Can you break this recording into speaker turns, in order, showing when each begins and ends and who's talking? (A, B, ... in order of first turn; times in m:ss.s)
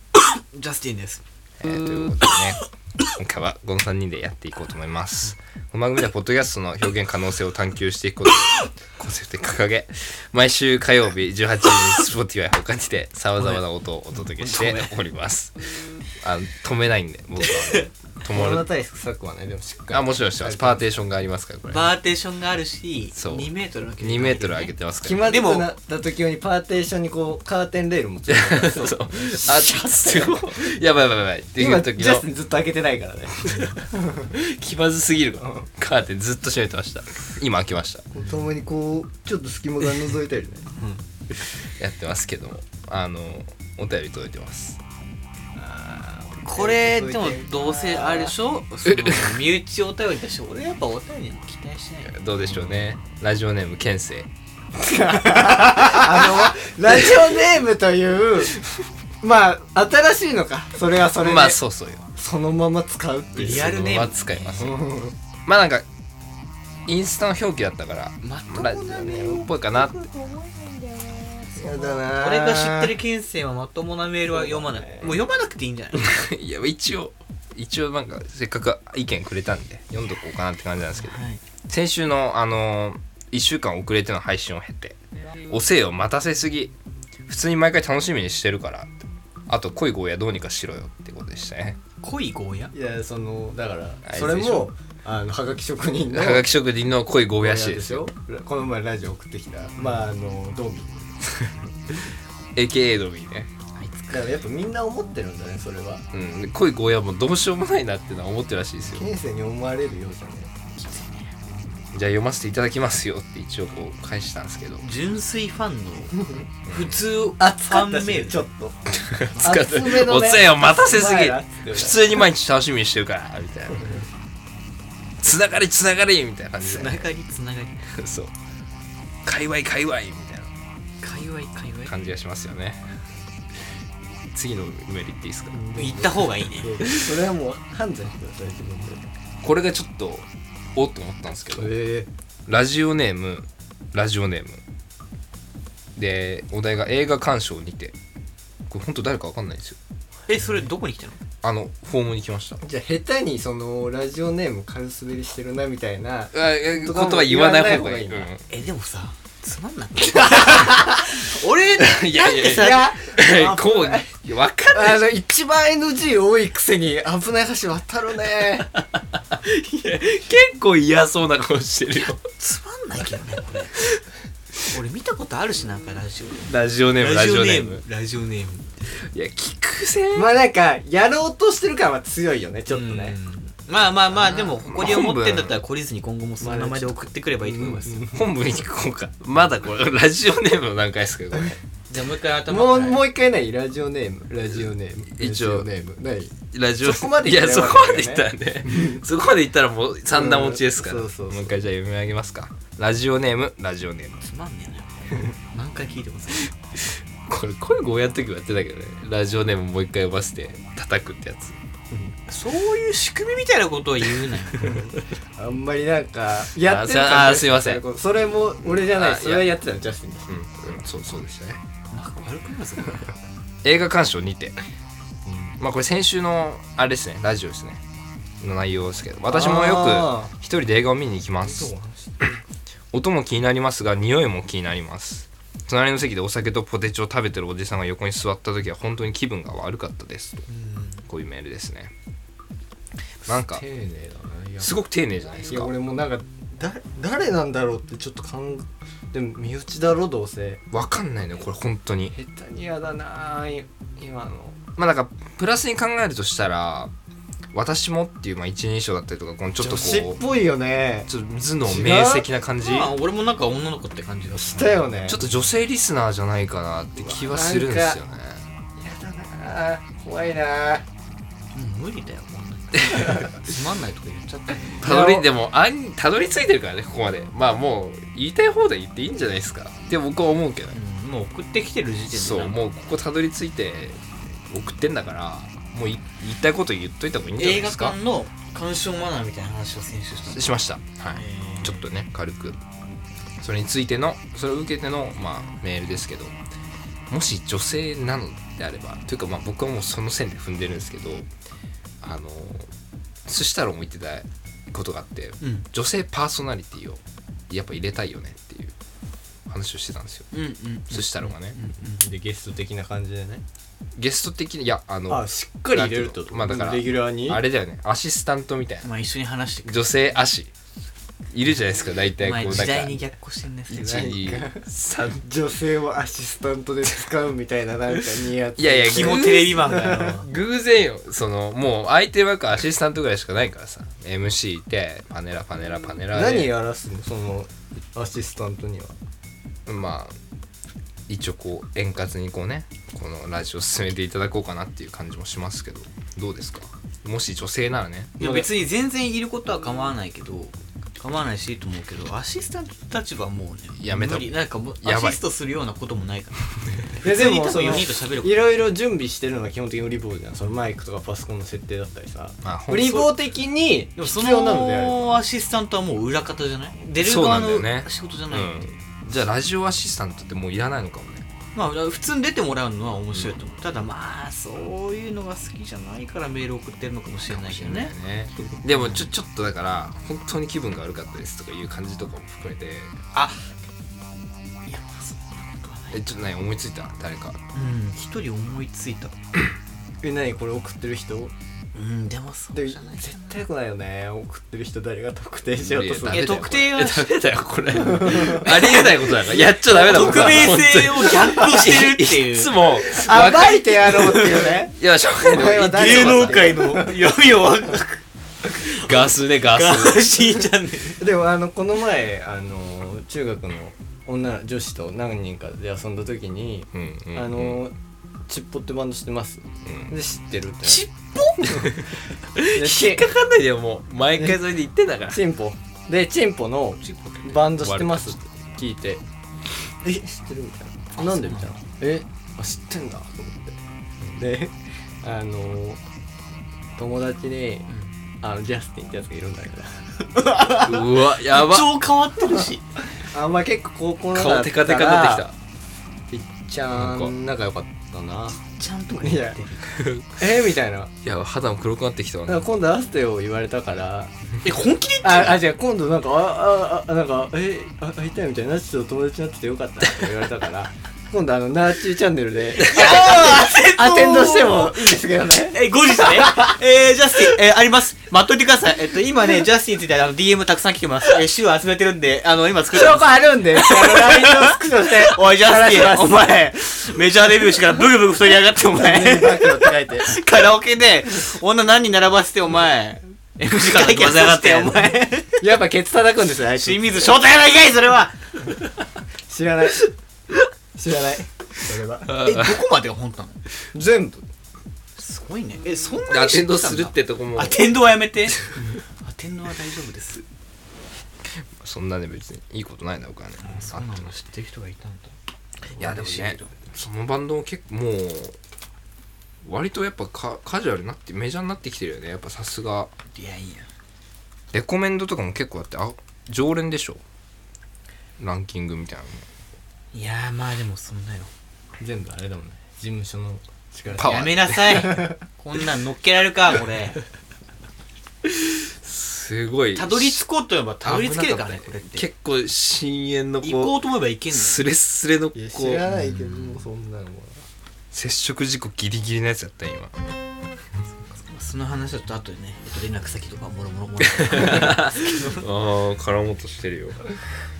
0:00.2-0:02.4 A
0:01.6-0:02.6 B
0:03.1-0:18.7 B
0:14.4-0:14.8 C
0:18.2-0:20.8 C
0:19.9-0:21.8 B
0:21.7-0:25.7 A
0:23.2-0:25.2 B
0:25.0-0:30.7 C
0:28.3-0:32.2 B
0:31.6-0:34.3 C
0:34.3-0:38.1 B
0:35.4-0:35.7 C
0:38.1-0:40.9 C
0:41.5-0:44.8 B
0:45.6-0:48.3 C
0:46.4-0:52.1 A
0:52.0-0:54.3 B
0:52.4-0:52.9 C
0:54.8-0:58.6 C
0:56.0-0:56.2 B
0:59.2-1:01.6 C
1:01.2-1:02.1 B
1:02.2-1:05.1 C
1:03.4-1:04.8 B
1:03.4-1:04.7 A
1:05.4-1:05.8 B
1:06.8-1:09.9 B
1:08.2-1:16.2 A
1:08.9-1:09.5 C
1:11.6-1:12.9 C
1:14.3-1:15.2 C
1:16.0-1:25.0 B
1:20.9-1:21.4 A
1:25.5-1:26.7 B
1:27.3-1:29.0 B
1:29.5-1:31.8 B
1:32.0-1:32.7 A
1:32.7-1:36.5 C
1:34.0-1:34.7 B
1:36.1-1:38.1 B
1:37.4-1:41.5 C
1:42.5-1:43.5 B
1:43.8-1:44.3 A
1:44.1-1:46.0 C
1:46.1-1:49.1 B
1:48.8-1:50.5 C
1:50.7-1:51.3 A
1:51.9-1:54.8 B
1:54.8-1:58.4 A
1:56.6-1:57.0 B
1:57.4-1:58.8 C
1:58.9-2:04.0 B
1:59.4-2:02.0 C
2:05.2-2:07.0 B
2:06.6-2:07.8 A
2:07.9-2:08.3 B
2:09.2-2:10.5 B
2:11.0-2:11.9 A
2:11.8-2:13.0 B
2:14.3-2:15.6 B
2:15.5-2:19.0 C
2:15.7-2:16.8 A
2:19.4-2:21.7 B
2:21.6-2:22.1 C
2:22.5-2:24.6 B
2:26.0-2:28.0 B
2:28.7-2:29.8 B
2:30.3-2:31.2 A
2:31.4-2:32.6 B
2:32.6-2:38.3 C
2:36.3-2:38.4 B
2:38.5-2:42.9 A
2:40.2-2:41.0 C
2:41.8-2:45.1 B
2:42.4-2:44.1 C
2:44.7-2:48.7 C
2:49.3-2:52.2 B
2:52.2-2:53.8 A
2:54.7-2:58.7 A
2:56.4-2:57.8 B
2:59.0-3:00.3 B
3:00.1-3:03.2 C
3:02.7-3:08.0 A
3:04.1-3:05.6 B
3:06.4-3:08.2 C
3:08.1-3:11.6 B
3:11.9-3:13.0 A
3:12.5-3:19.0 C
3:14.5-3:15.7 B
3:16.5-3:24.2 B
3:20.1-3:21.6 C
3:24.2-3:26.5 A
3:27.3-3:31.6 B
3:32.3-3:34.8 A
3:34.6-3:40.7 C
3:36.6-3:37.8 B
3:38.7-3:39.4 B
3:40.3-3:41.6 B
3:41.9-3:43.1 A
3:43.6-3:44.5 B
3:45.2-3:45.6 C
3:45.6-3:47.8 B
3:48.4-3:51.7 B
3:49.3-3:50.3 C
3:51.4-3:52.4 C
3:52.9-4:00.4 B
4:00.5-4:01.1 A
4:01.1-4:01.9 B
4:03.2-4:03.6 B
4:03.3-4:04.8 C
4:04.6-4:05.7 B
4:05.4-4:10.6 C
4:10.7-4:12.1 B
4:12.1-4:14.6 C
4:14.8-4:16.9 B
4:17.5-4:20.2 B
4:19.6-4:21.1 C
4:21.1-4:22.9 B
4:21.6-4:22.3 C
4:22.6-4:25.2 A
4:24.3-4:25.2 C
4:25.1-4:28.4 B
4:27.0-4:28.0 C
4:28.8-4:30.8 C
4:31.5-4:34.9 A
4:32.9-4:33.2 B
4:34.8-4:35.3 C
4:34.8-4:40.8 B
4:40.7-4:42.6 A
4:42.1-4:48.0 B
4:47.4-4:50.5 A
4:50.3-4:52.6 B
4:51.1-4:51.8 A
4:53.4-4:56.3 B
4:57.1-5:01.3 B
5:02.0-5:02.7 B
5:03.2-5:08.7 B
5:05.4-5:05.6 A
5:09.5-5:10.3 B
5:10.3-5:12.0 A
5:10.9-5:11.6 B
5:11.9-5:13.4 C
5:13.9-5:18.9 B
5:15.1-5:17.4 C
5:18.8-5:19.9 A
5:19.6-5:20.5 B
5:21.3-5:23.0 B
5:22.2-5:24.1 A
5:23.7-5:25.2 B
5:23.7-5:24.6 C
5:25.2-5:30.2 C
5:28.6-5:36.5 B
5:28.8-5:30.3 A
5:36.1-5:38.9 C
5:39.6-5:40.1 B
5:41.1-5:48.2 B
5:48.2-5:48.5 C
5:48.2-5:58.3 A
5:53.7-5:55.2 B
5:57.0-6:05.2 C
6:02.4-6:03.1 B
6:04.0-6:08.5 A
6:07.0-6:11.2 B
6:11.5-6:17.9 A
6:17.3-6:22.9 B
6:18.7-6:19.1 A
6:24.7-6:26.1 A
6:25.9-6:27.4 B
6:27.5-6:29.2 A
6:30.0-6:31.3 C
6:31.7-6:33.4 A
6:32.5-6:36.3 C
6:35.6-6:46.6 B
6:36.0-6:37.1 A
6:37.9-6:38.9 C
6:38.4-6:42.5 A
6:39.9-6:40.6 C
6:42.8-6:46.9 C
6:45.5-6:48.0 A
6:48.6-6:51.0 A
6:48.7-6:50.0 B
6:51.0-6:57.7 C
6:56.7-6:57.6 B
6:58.3-7:00.8 C
6:59.6-6:59.9 B
7:00.6-7:01.6 A
7:01.4-7:01.8 C
7:02.3-7:05.2 B
7:02.4-7:03.1 C
7:05.1-7:09.0 C
7:06.8-7:07.4 A
7:07.5-7:08.2 B
7:09.7-7:13.6 C
7:11.0-7:11.5 A
7:14.1-7:15.8 C
7:16.8-7:17.7 C
7:18.2-7:19.8 C
7:20.1-7:22.7 A
7:20.6-7:21.7 B
7:23.0-7:25.2 C
7:24.1-7:25.3 B
7:26.1-7:28.4 C
7:26.7-7:27.1 B
7:28.4-7:29.7 A
7:29.0-7:29.4 C
7:29.8-7:30.1 B
7:30.2-7:30.9 C
7:31.0-7:32.5 B
7:32.3-7:34.1 C
7:34.4-7:35.4 A
7:35.0-7:46.6 C
7:42.6-7:45.0 A
7:45.5-8:05.4 A
7:52.7-7:56.5 C
7:58.7-8:00.2 C
8:03.6-8:04.7 B
8:05.4-8:07.1 C
8:06.6-8:08.5 A
8:09.3-8:09.9 C
8:10.8-8:12.2 C
8:12.1-8:12.6 B
8:12.1-8:13.4 A
8:13.7-8:14.2 C
8:15.0-8:18.5 A
8:16.1-8:17.7 B
8:19.0-8:20.2 A
8:21.2-8:24.1 B
8:23.4-8:26.6 A
8:25.8-8:28.4 B
8:29.4-8:32.9 B
8:33.1-8:33.7 A
8:34.5-8:37.0 B
8:38.2-8:39.2 B
8:39.9-8:41.3 A
8:41.8-8:45.2 C
8:43.9-8:47.0 A
8:43.9-8:44.9 B
8:48.2-8:50.2 B
8:49.7-8:52.0 A
8:50.8-8:55.8 B
8:53.4-8:54.6 A
8:55.3-8:57.4 C
8:55.9-8:56.6 A
8:57.9-8:59.9 B
9:01.1-9:05.4 A
9:04.2-9:07.1 B